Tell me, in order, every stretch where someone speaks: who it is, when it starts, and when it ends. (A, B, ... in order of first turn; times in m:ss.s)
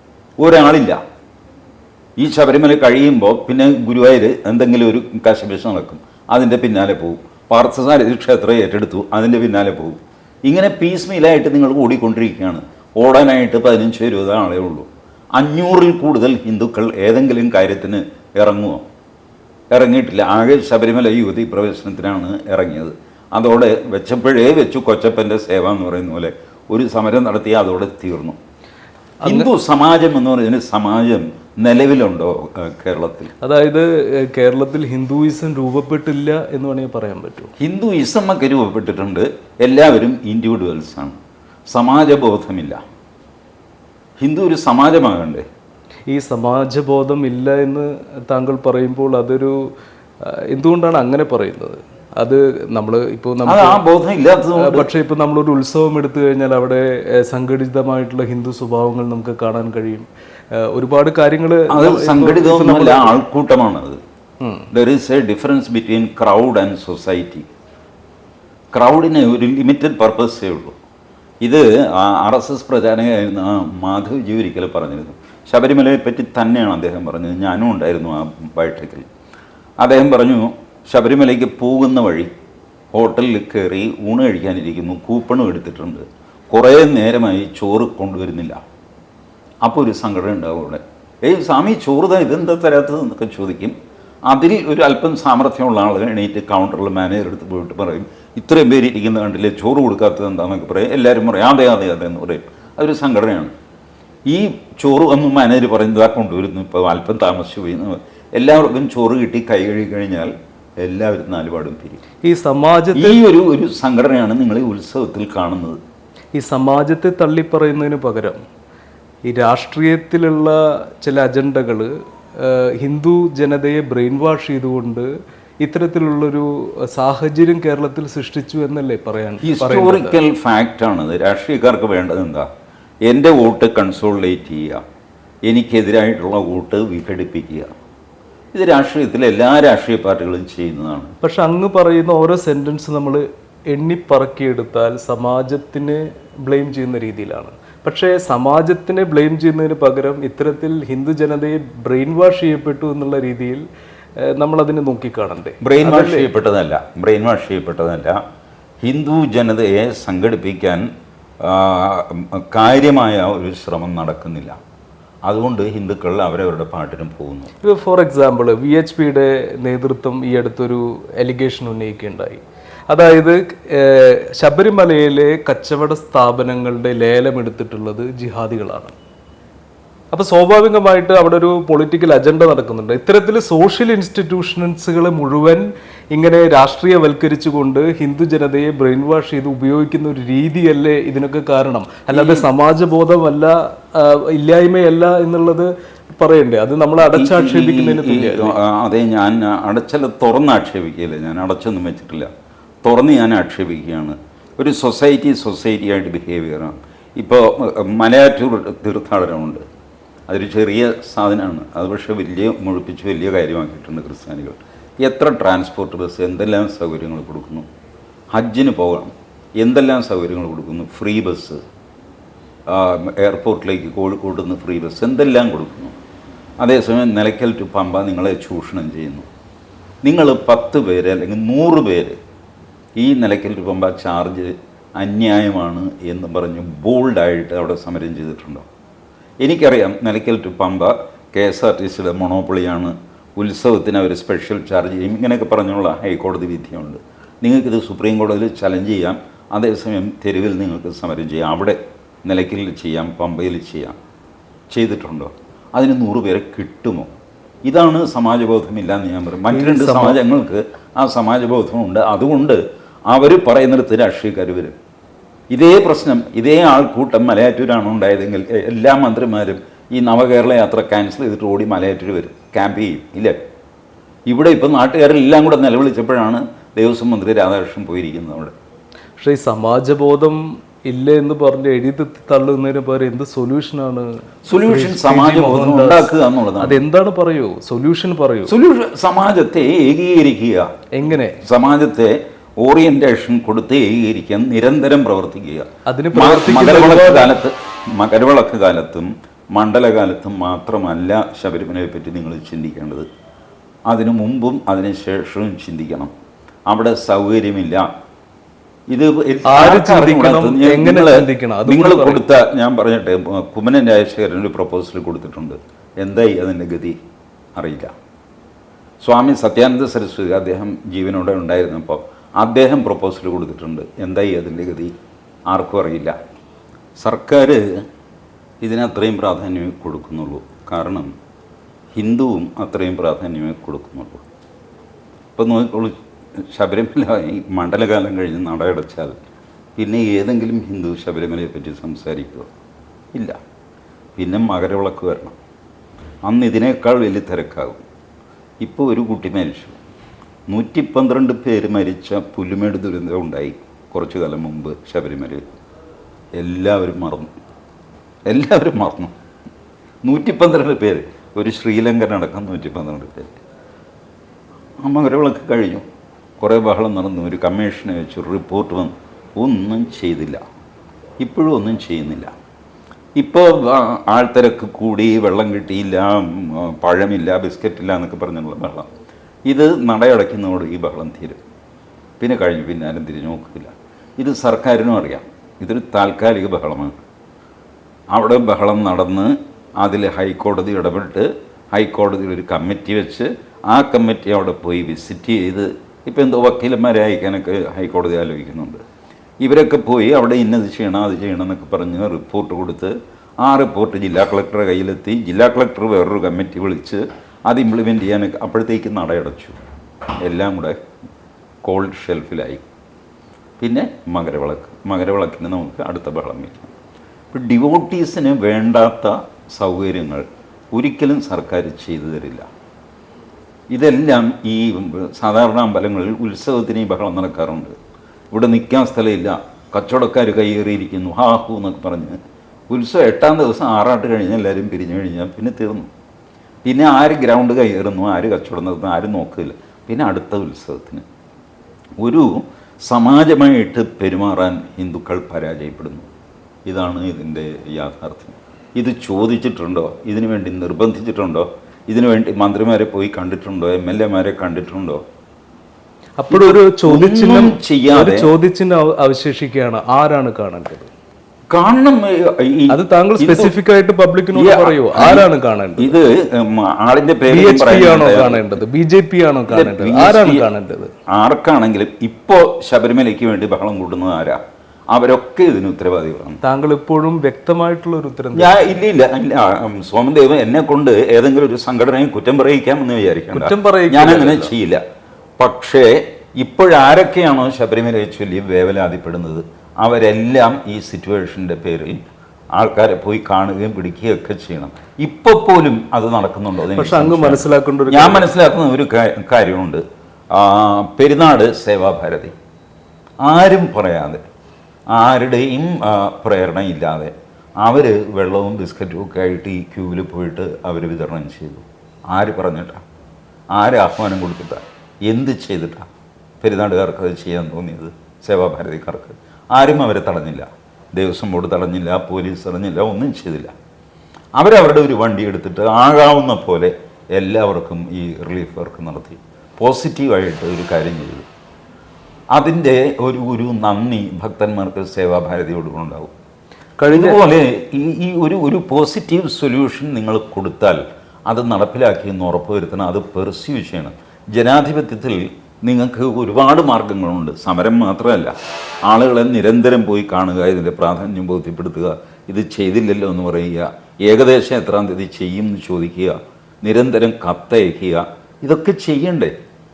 0:00.4-0:01.0 A
0:02.2-0:18.8 A
0:19.7-0:28.4 A
0:29.2-0:29.5 B
0:29.2-0:33.3 A
0:33.4-0:37.5 B
0:37.6-0:41.2 A
0:41.7-0:42.8 A
0:44.2-0:45.4 A
0:46.1-0:49.7 B
0:50.2-0:53.8 B
0:53.4-0:54.9 A
0:54.6-1:03.2 B
1:01.7-1:04.0 A
1:04.4-1:04.7 B
1:04.7-1:07.5 A
1:08.7-1:10.8 A
1:11.4-1:19.1 A
1:19.8-1:22.3 A
1:22.9-1:28.6 A
1:29.6-1:33.7 A
1:34.3-1:43.5 A
1:44.3-1:52.0 A
1:52.2-1:53.2 B
1:52.9-1:55.8 A
1:56.3-1:58.4 B
1:59.2-2:05.1 B
2:05.6-2:10.2 B
2:09.4-2:12.5 A
2:13.0-2:14.8 A
2:15.4-2:17.7 A
2:18.5-2:21.1 A
2:21.2-2:33.6 B
2:34.2-2:36.3 B
2:35.6-2:38.2 A
2:38.8-2:40.9 A
2:41.4-2:44.6 A
2:45.2-2:47.5 A
2:47.6-2:58.9 B
3:00.1-3:18.6 B
3:12.1-3:12.4 A
3:17.0-3:22.3 A
3:22.8-3:29.6 A
3:30.3-3:37.6 A
3:38.3-3:41.6 A
3:42.7-3:45.9 A
3:46.6-3:49.3 A
3:50.0-3:52.2 A
3:53.0-3:58.6 A
3:59.4-4:14.0 A
4:14.7-4:17.1 A
4:17.6-4:24.8 A
4:19.5-4:20.2 B
4:25.5-4:33.4 A
4:34.3-4:38.5 A
4:39.2-4:48.5 B
4:44.4-4:46.8 A
4:48.5-4:50.7 A
4:50.9-4:51.4 B
4:51.4-5:03.0 A
4:55.8-4:57.3 B
5:03.9-5:06.1 A
5:06.7-5:07.9 A
5:08.9-5:17.0 A
5:09.4-5:12.2 B
5:17.6-5:17.9 A
5:19.0-5:24.9 A
5:25.5-5:26.2 A
5:27.0-5:27.8 A
5:28.6-5:31.1 A
5:32.0-5:34.2 A
5:35.4-5:39.2 A
5:39.8-5:42.5 A
5:44.2-5:45.4 A
5:46.2-5:47.8 A
5:48.6-5:49.8 A
5:50.5-5:55.4 A
5:56.4-5:57.3 A
5:58.3-5:59.1 A
6:00.0-6:03.4 A
6:04.8-6:05.8 A
6:06.4-6:10.4 A
6:11.2-6:12.3 A
6:13.2-6:18.9 A
6:19.5-6:21.4 A
6:22.2-6:27.0 A
6:28.1-6:38.8 A
6:39.4-6:49.6 A
6:50.2-6:50.8 A
6:51.6-6:52.6 A
6:53.6-6:56.7 A
6:57.3-7:02.5 A
7:03.7-7:07.7 A
7:08.3-7:12.2 A
7:12.7-7:15.9 A
7:16.6-7:21.0 A
7:22.0-7:26.1 A
7:26.6-7:35.0 A
7:36.2-7:40.9 B
7:36.3-7:38.3 A
7:41.5-7:43.5 A
7:42.7-7:46.0 B
7:44.3-7:45.3 A
7:45.8-7:48.6 A
7:47.3-7:50.9 B
7:49.5-7:50.5 A
7:51.1-7:54.4 A
7:54.9-7:56.4 A
7:56.4-7:58.7 B
7:58.3-8:04.8 A
8:03.3-8:04.5 B
8:05.4-8:12.0 A
8:12.5-8:22.3 A
8:16.7-8:18.3 B
8:23.2-8:24.2 A
8:24.9-8:32.8 A
8:33.5-8:35.8 A
8:36.4-8:43.5 A
8:44.4-8:51.2 A
8:52.3-8:56.1 A
8:56.8-8:57.2 B
8:56.9-9:08.3 A
9:08.8-9:19.3 A